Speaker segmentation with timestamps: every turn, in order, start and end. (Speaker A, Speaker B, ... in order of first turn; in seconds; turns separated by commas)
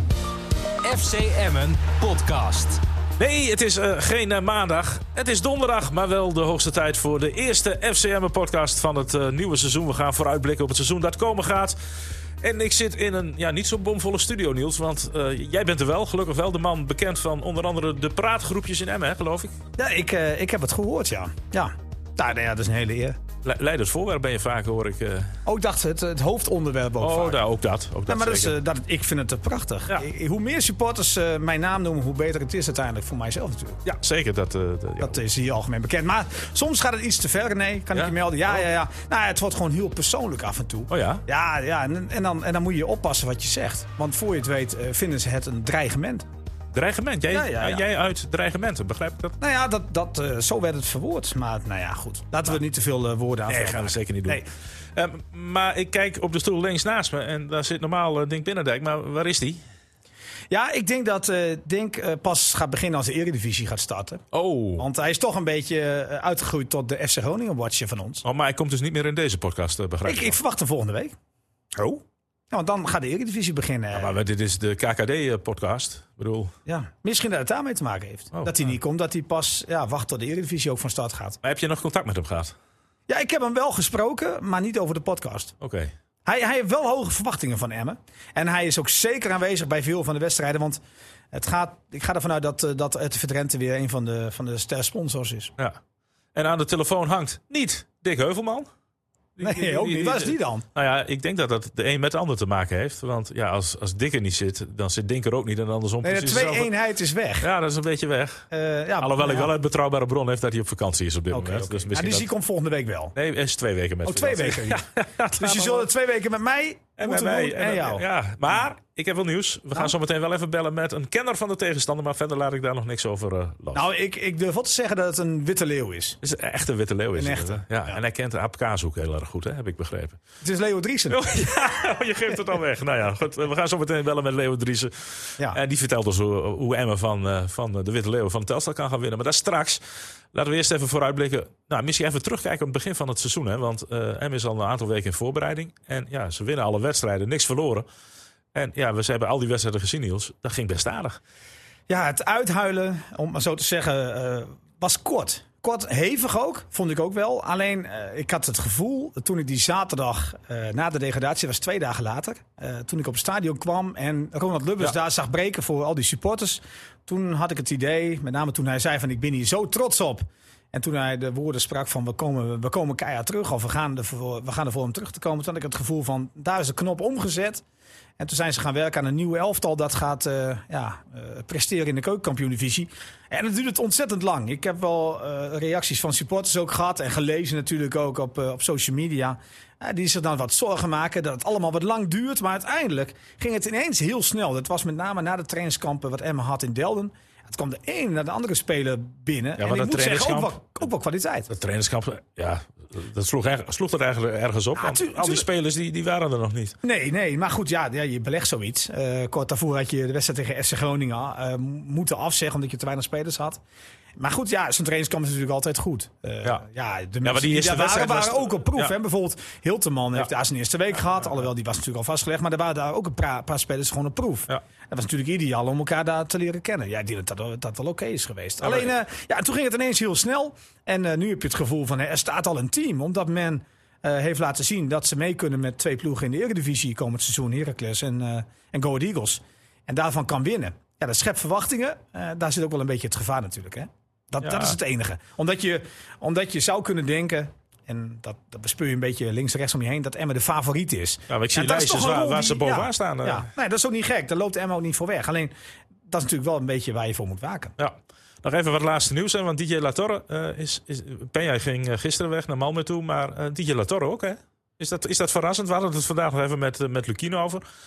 Speaker A: 0.8-2.8, Speaker B: 3.2-19.6, Speaker C: 19.8-23.2, Speaker B: 23.4-25.4, Speaker C: 25.4-27.4, Speaker B: 27.0-28.6, Speaker C: 28.1-33.8, Speaker B: 33.8-35.2, Speaker C: 35.0-46.2, Speaker B: 37.9-38.6, Speaker B: 40.9-41.2, Speaker B: 46.7-49.3, Speaker C: 47.3-47.8, Speaker C: 49.4-54.4, Speaker B: 53.5-59.6, Speaker C: 60.5-64.2, Speaker B: 64.3-64.8, Speaker C: 64.8-68.2, Speaker B: 68.2-70.4, Speaker C: 70.0-71.1, Speaker C: 71.7-74.2, Speaker B: 73.9-76.5, Speaker C: 76.7-81.4, Speaker B: 81.4-82.5, Speaker C: 83.1-85.5, Speaker B: 85.6-85.9, Speaker C: 86.2-90.8, Speaker C: 91.3-95.5, Speaker B: 96.3-98.7, Speaker B: 99.3-106.7, Speaker C: 99.4-100.6, Speaker C: 106.0-107.5, Speaker B: 107.4-108.5, Speaker C: 108.5-109.5, Speaker B: 109.0-112.3, Speaker C: 111.3-113.2, Speaker B: 113.1-115.9, Speaker C: 114.0-118.0, Speaker B: 117.0-123.9, Speaker C: 123.7-126.2, Speaker B: 126.2-130.2, Speaker C: 127.2-128.0, Speaker C: 130.4-131.5, Speaker B: 131.1-147.9, Speaker B: 148.5-151.2, Speaker C: 151.9-177.6, Speaker C: 178.2-201.5, Speaker B: 199.6-200.6, Speaker B: 201.5-206.8, Speaker C: 204.8-205.4, Speaker C: 206.8-213.6, Speaker C: 214.2-255.5, Speaker B: 217.2-218.9, Speaker B: 228.6-228.9, Speaker B: 244.4-244.8, Speaker B: 251.3-253.5, Speaker C: 256.1-257.7, Speaker B: 257.8-267.6